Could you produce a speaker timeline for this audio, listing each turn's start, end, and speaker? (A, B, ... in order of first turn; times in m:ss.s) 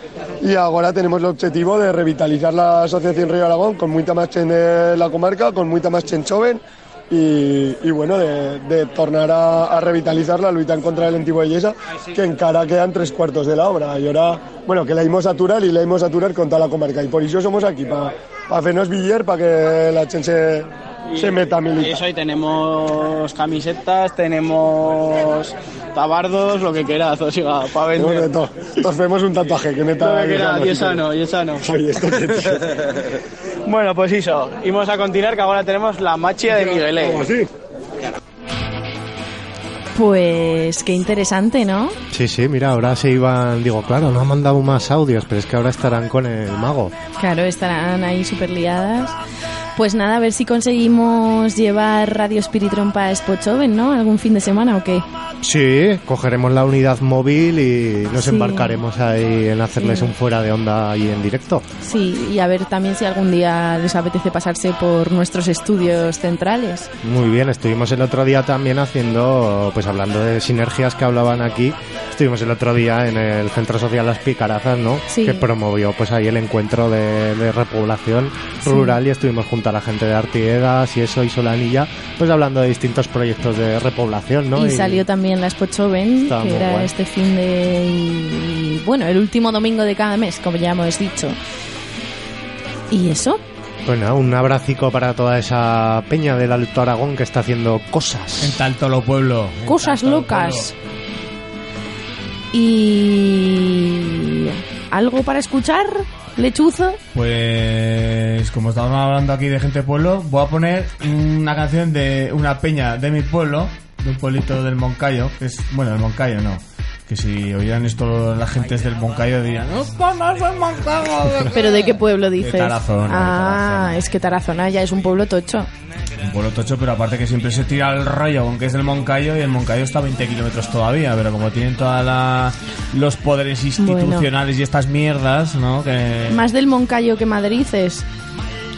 0:00.4-0:22.0 A
0:21.1-0:28.3 B
0:28.0-0:31.0 A
0:30.0-0:31.6 B
0:31.6-0:32.6 A
0:33.7-0:37.3 B
0:36.5-0:37.4 A
0:39.9-0:42.0 C
0:42.1-0:46.9 D
0:47.2-0:49.2 C
0:49.8-0:55.1 C
0:55.4-1:01.7 D
0:58.2-0:58.8 C
0:59.8-1:00.1 C
1:01.8-1:06.9 C
1:07.0-1:25.0 D
1:15.1-1:15.5 C
1:18.7-1:19.0 C
1:24.6-1:31.4 C
1:26.2-1:26.9 D
1:32.9-1:33.4 C
1:33.8-1:38.6 D
1:38.4-1:40.7 E
1:39.7-1:40.7 C
1:42.5-1:47.0 C
1:47.1-2:04.0 E
2:01.5-2:05.7 C
2:06.2-2:16.5 E
2:13.8-2:14.3 C
2:16.3-2:18.1 C